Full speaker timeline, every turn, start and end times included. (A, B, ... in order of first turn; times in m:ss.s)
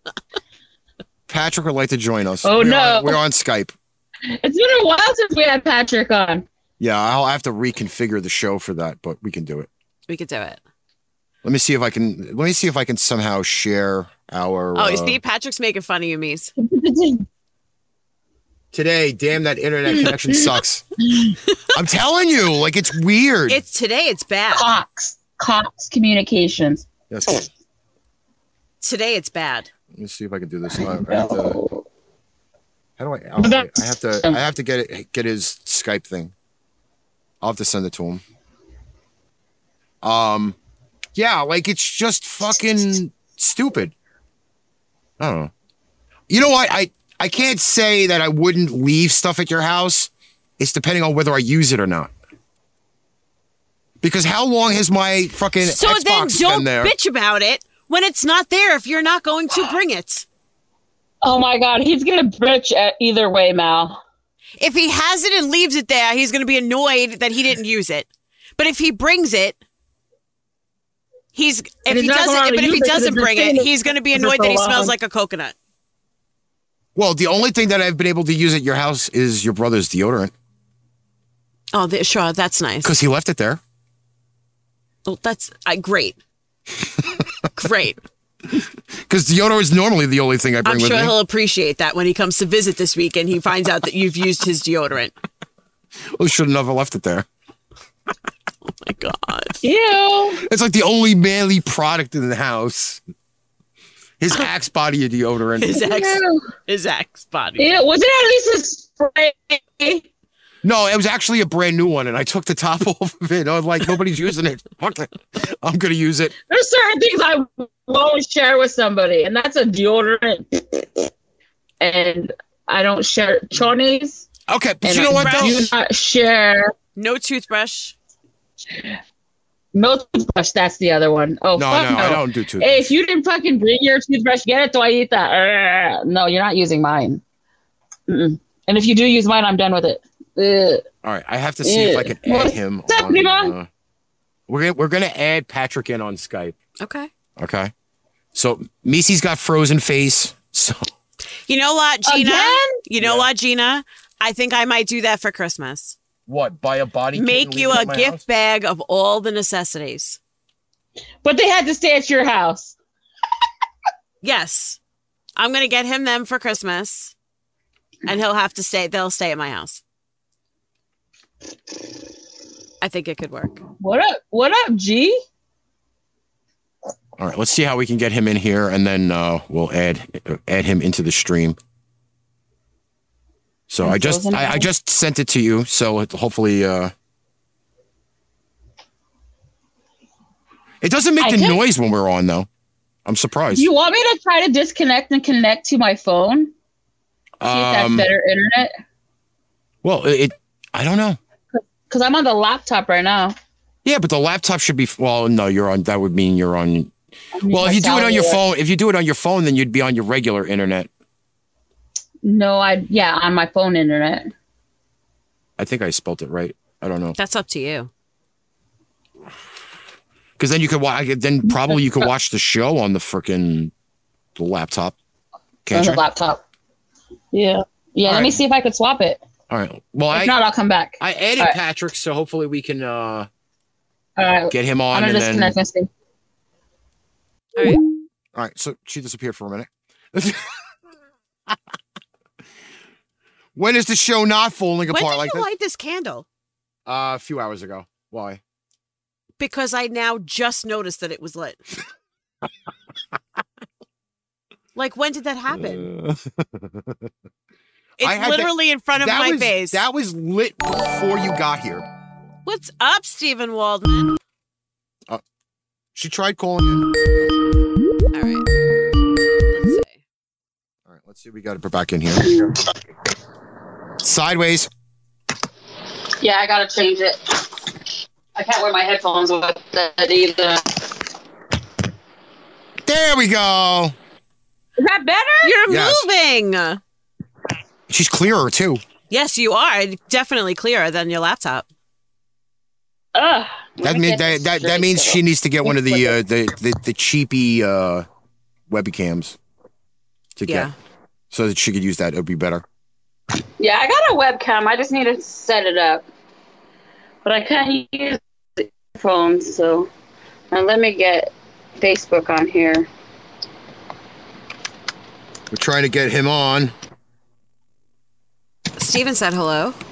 0:01.3-0:03.7 A
0:02.4-0:03.2 B
0:04.3-0:06.5 B
0:06.8-0:09.7 A
0:10.1-0:10.6 C
0:11.4-0:15.2 A
0:14.8-0:16.5 C
0:16.6-0:17.3 B
0:18.7-0:20.9 A
0:19.9-0:20.5 B
0:21.1-0:21.4 B
0:21.7-0:23.6 A
0:23.5-0:24.7 C
0:24.5-0:26.9 B
0:27.1-0:27.5 A
0:28.8-0:29.7 C
0:29.9-0:31.6 A
0:30.8-0:31.8 B
0:33.0-0:36.3 A
0:33.4-0:34.4 B
0:37.4-0:38.2 A
0:40.0-0:40.6 A
0:41.2-0:43.9 A
0:45.2-0:45.5 A
0:46.3-0:52.1 A
0:54.0-0:56.9 A
0:55.6-1:00.3 C
1:01.2-1:04.0 B
1:04.6-1:09.6 C
1:11.4-1:15.6 C
1:11.9-1:14.9 B
1:17.0-1:20.3 A
1:21.7-1:22.9 C
1:22.8-1:23.6 A
1:25.1-1:26.2 C
1:27.6-1:28.0 C
1:28.6-1:31.1 A
1:30.6-1:35.1 C
1:36.2-1:37.3 A
1:38.6-1:39.6 C
1:39.6-1:40.4 B
1:40.4-1:43.0 A
1:44.2-1:45.8 A
1:45.6-1:47.6 C
1:45.7-1:46.4 B
1:47.6-1:50.0 B
1:50.6-1:56.3 A
1:56.5-2:01.1 B
2:01.8-2:04.3 B
2:04.5-2:05.7 A
2:04.8-2:06.7 B
2:05.1-2:05.7 C
2:07.0-2:08.0 C
2:09.7-2:17.2 B
2:11.6-2:12.8 A
2:18.1-2:20.8 B
2:21.0-2:23.7 A
2:21.6-2:23.5 B
2:24.5-2:26.6 A
2:26.8-2:27.1 C
2:27.4-2:27.7 A
2:28.3-2:30.9 A
2:31.5-2:36.0 C
2:32.1-2:32.8 B
2:33.0-2:33.3 A
2:36.3-2:38.2 A
2:37.2-2:40.2 C
2:41.2-2:42.8 B
2:44.2-2:44.8 C
2:45.4-2:47.1 C
2:48.1-2:49.8 C
2:52.8-2:53.6 C
2:53.8-2:55.2 B
2:57.2-3:01.6 A
3:03.7-3:06.9 A
3:03.8-3:04.7 B
3:10.8-3:12.5 A
3:11.2-3:11.6 B
3:13.1-3:13.7 A
3:13.5-3:16.5 B
3:17.4-3:18.1 A
3:17.5-3:18.7 B
3:19.8-3:21.2 A
3:21.5-3:23.4 B
3:23.8-3:26.9 A
3:27.4-3:28.4 B
3:27.5-3:30.9 A
3:32.2-3:34.3 B
3:35.6-3:37.2 A
3:37.2-3:37.9 C
3:40.4-3:43.7 A
3:44.4-3:45.0 A
3:45.6-3:46.0 A
3:45.7-3:46.4 B
3:47.3-3:49.2 B
3:48.0-3:48.4 A
3:49.5-3:50.4 A
3:50.1-3:51.6 B
3:51.0-3:53.3 A
3:54.2-3:55.9 B
3:54.5-3:55.6 A
3:57.6-3:57.8 C
3:58.4-4:00.6 A
4:03.6-4:05.5 A
4:04.9-4:06.2 C
4:06.9-4:08.4 A
4:09.4-4:11.6 C
4:14.8-4:15.9 C
4:15.5-4:17.1 A
4:18.0-4:19.8 C
4:18.0-4:21.9 A
4:22.5-4:24.2 C
4:26.0-4:27.4 A
4:28.1-4:28.5 C
4:29.5-4:30.0 C
4:30.9-4:32.4 A
4:32.2-4:32.5 B
4:34.0-4:34.7 A
4:36.2-4:37.6 B
4:38.4-4:41.0 B
4:42.9-4:43.9 A
4:44.8-4:45.5 B
4:45.4-4:46.8 C
4:45.7-4:46.1 A
4:47.9-4:48.8 A
4:49.1-4:51.7 C
4:53.2-4:56.2 B
4:53.8-4:58.1 A
4:58.7-4:59.4 A
5:00.4-5:00.7 A
5:00.5-5:00.7 C
5:01.3-5:02.6 A
5:03.6-5:06.1 B
5:07.2-5:09.9 B
5:10.5-5:12.9 B
5:15.5-5:16.7 A
5:18.8-5:19.8 C